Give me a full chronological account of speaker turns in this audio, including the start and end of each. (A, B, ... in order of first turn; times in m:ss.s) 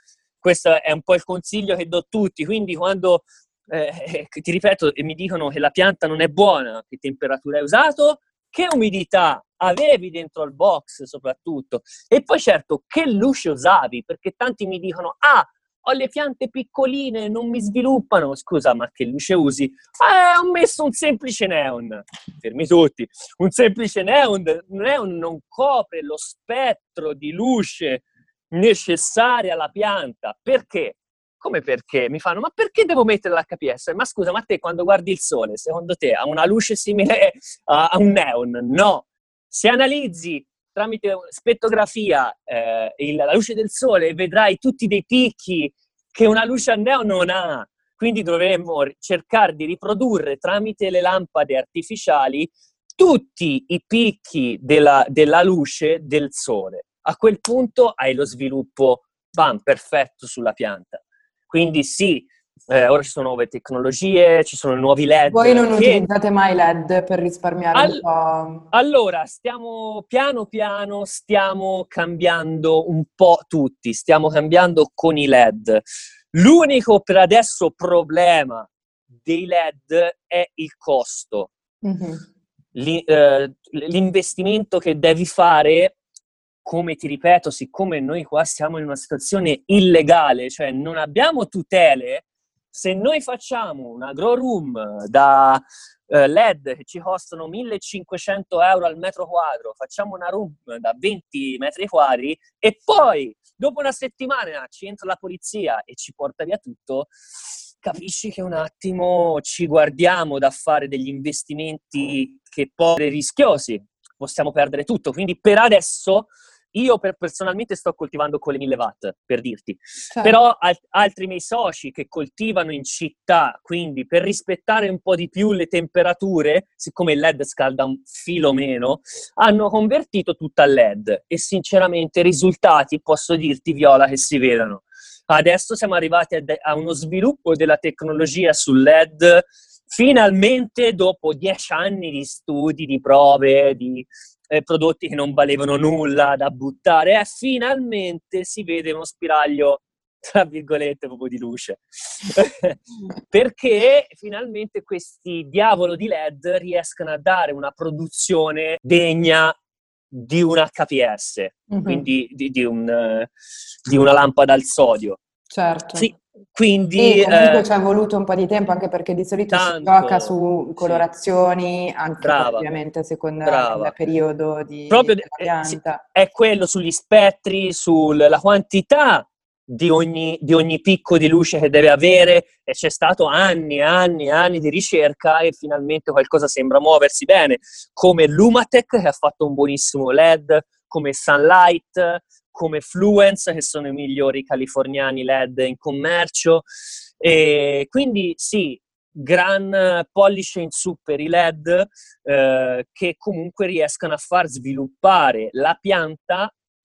0:00.4-1:06.1 A
1:05.3-1:08.7 B
1:07.8-1:08.0 A
1:08.7-1:21.5 A
1:21.8-1:22.2 B
1:22.8-1:26.0 A
1:26.6-1:47.1 A
1:47.8-2:39.6 A
2:00.1-2:00.4 B
2:40.1-2:43.3 A
2:41.7-2:42.1 B
2:43.9-2:45.2 A
2:45.5-2:46.1 B
2:46.0-2:47.7 A
2:47.0-2:56.0 B
2:49.5-2:51.0 A
2:52.2-2:52.7 A
2:53.4-2:53.9 A
2:54.9-3:16.7 A
3:17.2-3:26.5 A